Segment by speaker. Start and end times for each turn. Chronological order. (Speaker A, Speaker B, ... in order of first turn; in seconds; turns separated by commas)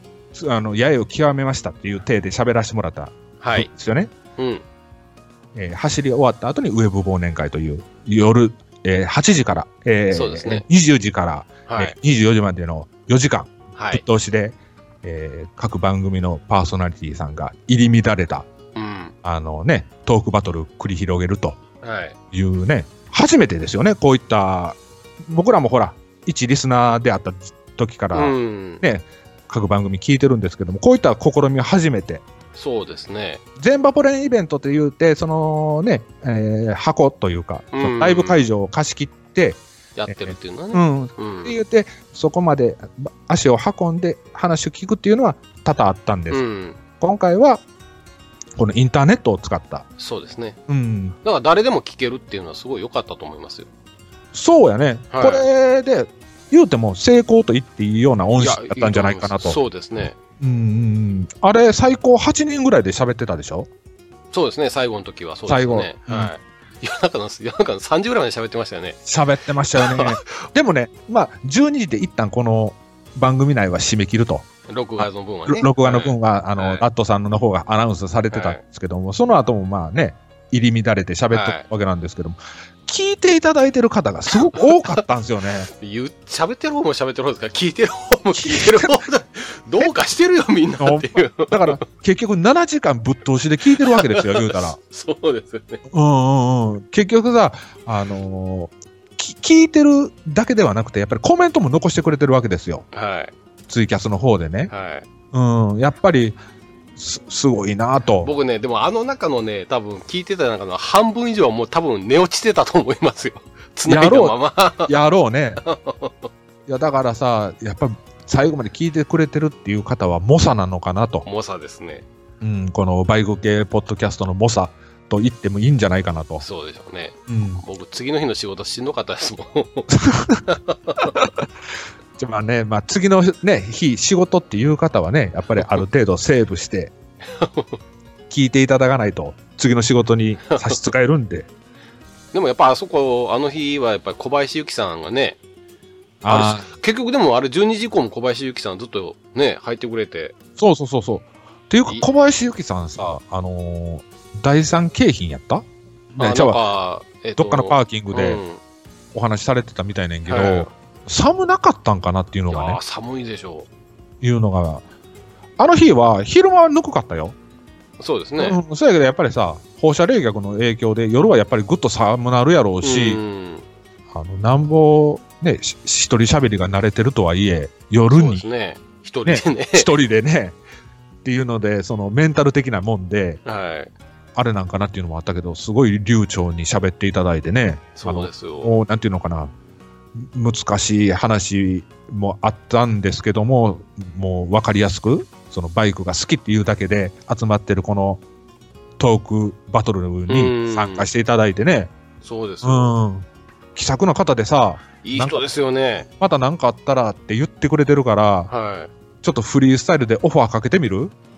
Speaker A: 0.3-4.1, Speaker B: 3.4-3.7, Speaker B: 4.4-4.6, Speaker A: 5.5-18.5, Speaker B: 10.1-10.7, Speaker B: 11.7-11.9, Speaker B: 13.8-14.0, Speaker B: 18.8-19.1, Speaker A: 19.2-21.6, Speaker B: 21.8-22.2, Speaker A: 22.3-32.2, Speaker B: 28.1-28.8, Speaker B: 32.5-33.4, Speaker A: 33.6-46.4, Speaker B: 37.7-38.5, Speaker B: 40.0-41.6, Speaker B: 46.3-46.8, Speaker A: 47.0-47.6, Speaker A: 48.6-49.9, Speaker B: 50.0-50.6, Speaker A: 50.7-51.2, Speaker B: 51.2-53.7, Speaker A: 54.3-59.6, Speaker B: 55.1-55.5, Speaker B: 58.4-60.2, Speaker A: 60.4-63.7, Speaker B: 64.3-69.0, Speaker A: 65.5-66.3, Speaker A: 69.0-74.5, Speaker B: 69.8-70.2, Speaker B: 74.7-76.8, Speaker A: 75.0-85.7, Speaker B: 78.3-78.6, Speaker B: 81.3-81.7, Speaker B: 85.8-91.8, Speaker A: 88.3-89.0, Speaker A: 90.8-94.8, Speaker B: 93.8-95.8, Speaker A: 95.9-102.9, Speaker B: 102.9-103.3, Speaker A: 103.7-104.7, Speaker B: 104.7-105.1, Speaker A: 105.3-106.4, Speaker A: 107.0-108.3, Speaker B: 108.2-114.9, Speaker A: 113.9-115.6, Speaker B: 115.6-116.3, Speaker A: 116.7-121.3, Speaker B: 121.3-122.0, Speaker A: 122.4-126.5, Speaker B: 126.4-129.9, Speaker A: 127.3-127.6, Speaker A: 129.9-131.5, Speaker B: 130.5-131.1, Speaker A: 132.2-136.9, Speaker B: 135.6-135.8, Speaker B: 137.3-137.8, Speaker A: 138.3-141.5, Speaker B: 140.5-140.8, Speaker B: 142.3-145.4, Speaker A: 146.2-146.7, Speaker B: 146.3-150.3, Speaker A: 150.6-156.6, Speaker B: 156.2-158.6, Speaker A: 157.4-158.4, Speaker A: 159.1-162.8, Speaker B: 160.3-160.7, Speaker B: 162.5-163.7, Speaker A: 164.2-164.8, Speaker A: 165.6-167.4, Speaker B: 168.0-168.6, Speaker A: 168.4-173.2, Speaker B: 172.8-173.7, Speaker A: 174.1-178.4, Speaker B: 178.1-179.9, Speaker A: 179.2-180.6, Speaker A: 181.2-183.4, Speaker B: 183.4-183.9, Speaker A: 184.3-189.5, Speaker B: 188.0-188.7, Speaker A: 190.2-198.2, Speaker A: 199.0-201.9, Speaker B: 200.3-201.1, Speaker B: 202.2-202.9, Speaker A: 202.6-205.4, Speaker B: 205.0-206.1, Speaker A: 206.2-208.5, Speaker B: 208.5-208.9, Speaker A: 209.2-211.1